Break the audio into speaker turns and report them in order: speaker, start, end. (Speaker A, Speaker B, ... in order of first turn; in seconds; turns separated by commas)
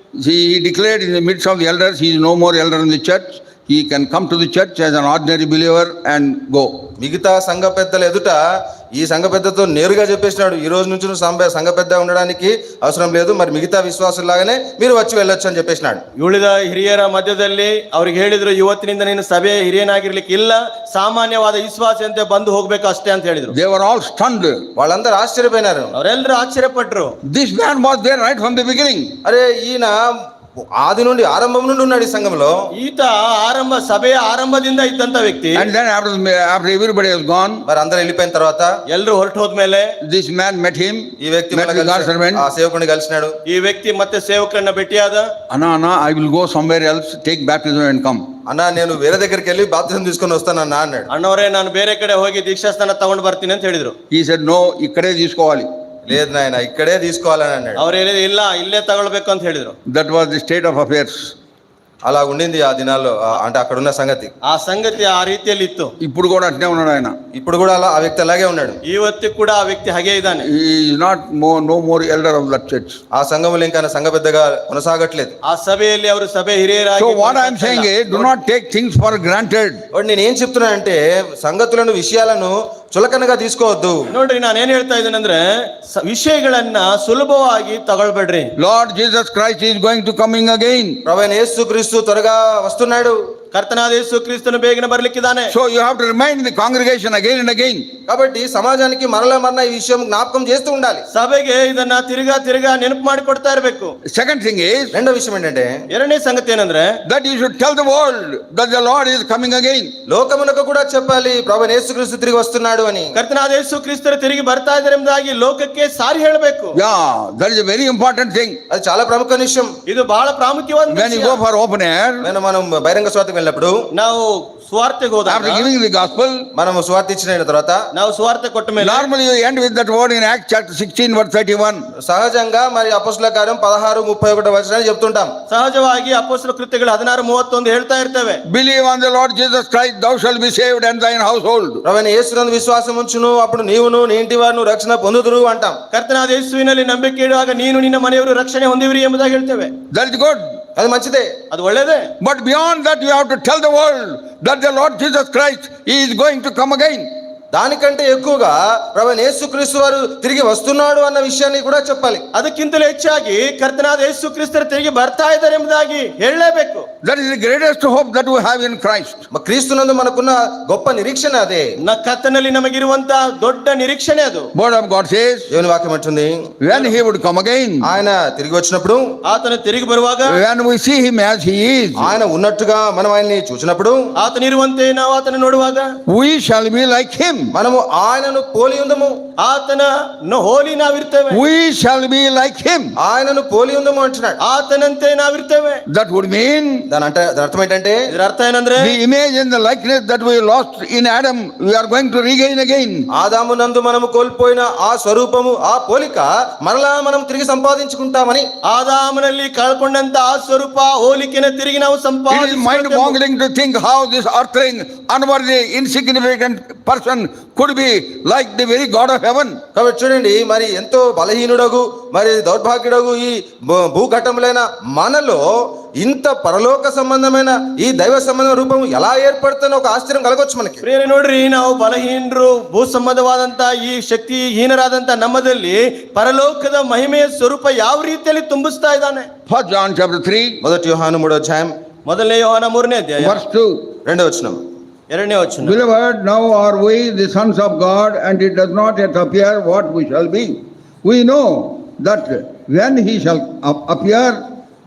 Speaker A: 0.2-6.7, Speaker B: 7.0-8.4, Speaker B: 8.9-16.0, Speaker C: 16.2-23.6, Speaker A: 23.5-24.6, Speaker B: 24.8-25.9, Speaker C: 25.9-27.1, Speaker A: 27.3-29.1, Speaker B: 29.2-30.0, Speaker B: 30.8-32.6, Speaker C: 32.8-35.7, Speaker A: 35.5-37.6, Speaker B: 37.7-38.7, Speaker C: 38.9-39.9, Speaker A: 40.0-42.5, Speaker B: 41.2-43.4, Speaker C: 43.5-45.3, Speaker A: 45.5-48.2, Speaker B: 48.5-51.1, Speaker C: 51.1-53.9, Speaker A: 54.1-55.7, Speaker B: 56.1-57.8, Speaker C: 57.8-59.8, Speaker A: 59.9-61.3, Speaker B: 62.0-64.3, Speaker C: 64.5-65.9, Speaker A: 66.0-67.2, Speaker B: 67.3-68.8, Speaker C: 68.8-70.5, Speaker A: 70.5-73.0, Speaker B: 73.2-75.3, Speaker C: 75.5-78.3, Speaker A: 77.0-79.8, Speaker B: 79.9-84.1, Speaker C: 84.1-88.5, Speaker A: 88.6-91.0, Speaker B: 91.0-93.2, Speaker C: 93.5-95.6, Speaker A: 95.5-97.9, Speaker B: 98.1-101.1, Speaker C: 101.1-104.0, Speaker A: 104.1-104.9, Speaker B: 104.9-105.8, Speaker C: 105.9-107.0, Speaker A: 107.1-109.9, Speaker B: 110.1-113.1, Speaker C: 113.2-116.8, Speaker A: 116.8-118.6, Speaker B: 118.7-119.7, Speaker C: 119.9-121.3, Speaker A: 120.9-122.3, Speaker B: 122.2-123.8, Speaker C: 123.9-125.7, Speaker A: 125.3-126.5, Speaker B: 126.5-127.8, Speaker C: 128.0-129.1, Speaker A: 128.8-131.8, Speaker B: 132.0-135.3, Speaker C: 135.5-138.4, Speaker A: 138.5-141.8, Speaker B: 141.8-145.8, Speaker C: 145.9-149.7, Speaker A: 149.9-150.4, Speaker B: 150.8-151.3, Speaker C: 151.5-152.1, Speaker A: 152.2-157.1, Speaker B: 157.5-162.2, Speaker C: 162.3-166.9, Speaker A: 167.0-169.2, Speaker B: 169.3-171.7, Speaker C: 171.8-174.5, Speaker A: 174.6-175.5, Speaker B: 175.5-176.5, Speaker A: 176.6-177.9, Speaker B: 177.8-179.1, Speaker C: 179.2-180.4, Speaker A: 180.3-182.1, Speaker B: 182.0-184.0, Speaker C: 184.2-185.9, Speaker A: 186.1-187.5, Speaker B: 187.5-189.2, Speaker C: 189.4-191.4, Speaker A: 191.3-192.9, Speaker B: 193.0-194.4, Speaker C: 194.4-195.8, Speaker A: 195.9-196.9, Speaker B: 196.9-198.1, Speaker C: 198.1-198.9, Speaker A: 198.8-203.1, Speaker B: 203.1-208.5, Speaker C: 208.7-213.2, Speaker A: 212.3-219.6, Speaker B: 219.8-230.8, Speaker C: 230.8-239.3, Speaker A: 239.5-240.6, Speaker B: 240.6-241.7, Speaker C: 242.1-243.4, Speaker A: 243.2-243.9, Speaker B: 244.1-244.6, Speaker C: 245.1-245.8, Speaker A: 245.6-254.4